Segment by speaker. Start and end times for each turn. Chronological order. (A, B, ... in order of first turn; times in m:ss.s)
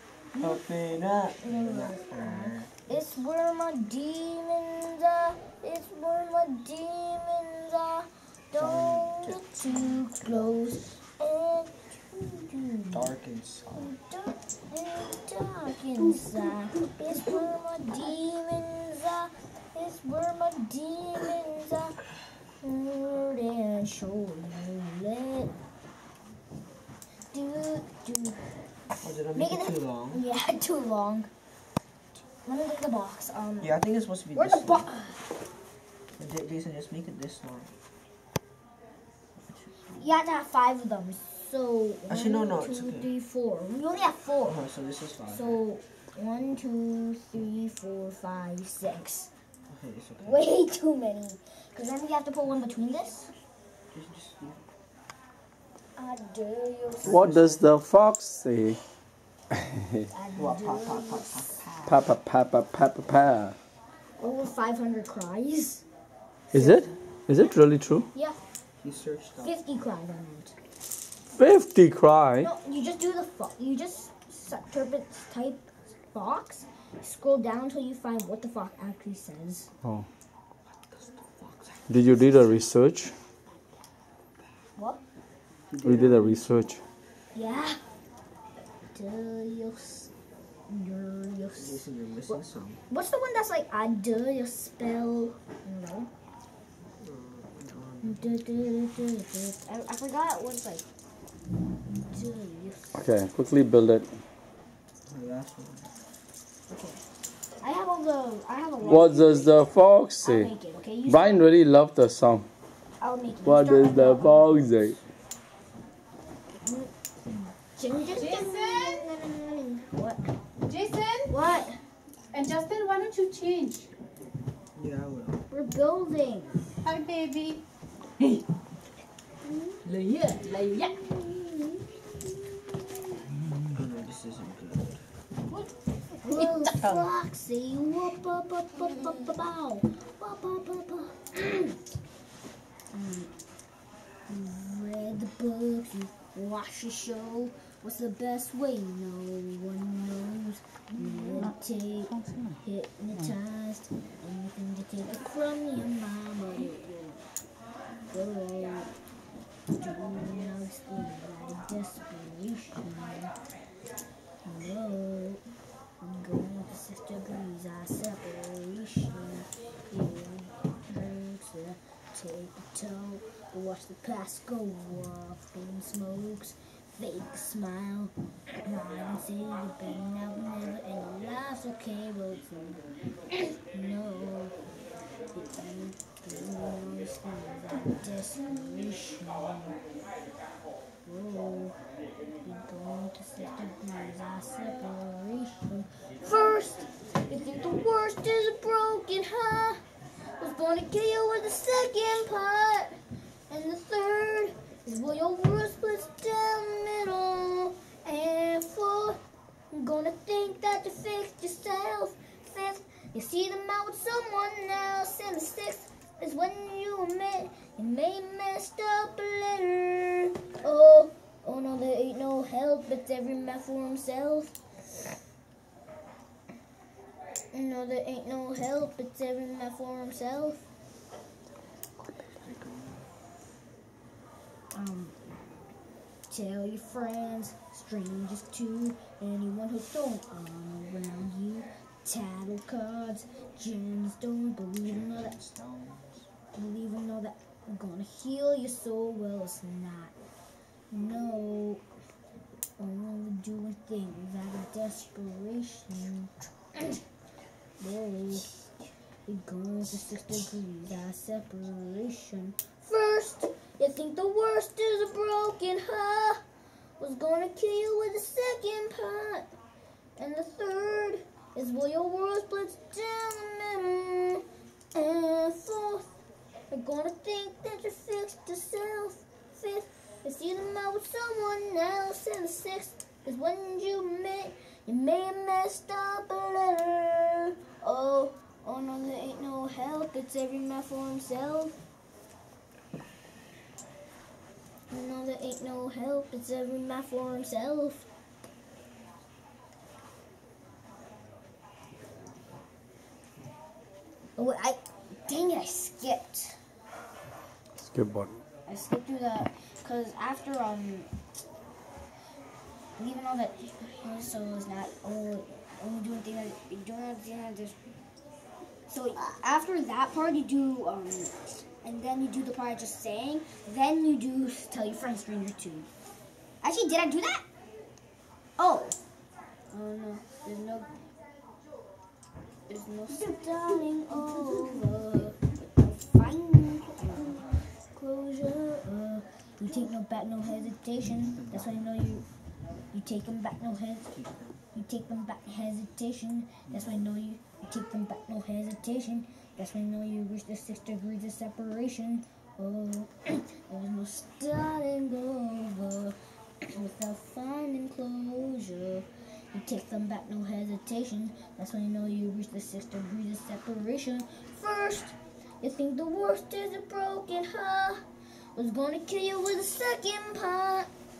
0:00.4-0:03.1 A
0:01.4-0:13.1 B
0:08.5-0:09.4 A
0:12.9-0:13.9 A
0:13.7-0:22.0 B
0:22.6-0:25.6 B
0:27.3-0:28.4 B
0:29.0-0:30.2 A
0:29.3-0:31.3 B
0:32.2-0:33.8 B
0:33.6-0:34.9 A
0:34.3-0:35.2 B
0:36.2-0:37.7 A
0:39.6-0:40.0 A
0:40.0-0:44.6 B
0:42.1-0:43.1 A
0:44.4-0:45.6 A
0:45.3-0:49.3 B
0:49.7-0:50.4 A
0:50.2-0:53.3 B
0:53.9-0:54.6 A
0:56.0-0:57.4 B
0:57.0-0:57.7 A
0:57.0-0:58.8 C
1:00.1-1:02.1 B
1:00.3-1:01.7 A
1:01.9-1:03.5 C
1:04.2-1:05.8 B
1:06.5-1:08.0 C
1:06.5-1:06.8 A
1:08.8-1:09.5 A
1:09.4-1:10.5 B
1:11.4-1:12.5 C
1:12.4-1:19.7 B
1:20.9-1:22.0 A
1:21.9-1:23.1 C
1:24.8-1:25.0 B
1:25.7-1:26.5 A
1:25.8-1:26.8 C
1:27.3-1:27.8 B
1:28.9-1:30.1 B
1:30.7-1:36.1 B
1:31.6-1:32.8 A
1:37.0-1:38.3 A
1:38.0-1:40.8 B
1:41.9-1:43.0 B
1:42.9-1:44.1 C
1:45.1-1:45.9 A
1:46.7-1:47.0 B
1:47.6-1:49.6 B
1:48.9-1:50.5 C
1:50.2-1:51.5 B
1:51.0-1:52.4 C
1:53.0-1:54.8 B
1:53.4-1:55.0 C
1:56.6-2:00.3 B
1:58.1-1:59.0 D
2:00.6-2:01.3 D
2:01.3-2:01.8 B
2:02.3-2:03.9 D
2:04.7-2:05.4 A
2:05.5-2:06.7 B
2:06.8-2:07.6 D
2:09.4-2:09.8 B
2:09.8-2:10.9 D
2:10.9-2:13.2 B
2:13.7-2:15.0 A
2:16.2-2:21.8 B
2:16.2-2:17.0 D
2:22.9-2:23.3 B
2:24.3-2:37.3 B
2:32.1-2:32.6 C
2:38.1-2:38.9 B
2:39.7-2:43.3 B
2:44.4-2:45.4 B
2:46.0-2:58.1 B
2:58.6-3:04.6 B
3:05.3-3:09.8 B
3:11.0-3:11.8 B
3:12.4-3:19.8 B
3:20.4-3:29.2 B
3:29.7-3:44.6 B
3:47.5-3:50.6 B
3:52.0-3:53.0 A
3:54.7-3:55.2 B
3:56.3-4:05.3 B
4:04.8-4:06.2 A
4:06.5-4:10.1 B
4:10.9-4:11.8 B
4:12.8-4:17.0 B
4:17.8-4:18.5 B
4:19.2-4:26.4 B
4:27.0-4:29.5 B
4:30.2-4:36.1 B
4:36.7-4:51.8 B
4:54.9-4:58.0 B
5:04.4-5:06.6 B
5:07.8-5:08.4 C
5:08.6-5:11.1 B
5:13.0-5:17.8 B
5:18.9-5:25.9 B
5:26.6-5:27.4 B
5:28.6-5:29.0 B
5:29.7-5:30.9 B
5:32.7-5:42.2 B
5:41.3-5:41.8 A
5:42.9-5:44.1 B
5:44.1-5:44.6 A
5:44.7-6:08.0 B
5:46.7-5:47.0 A
6:08.5-6:10.9 B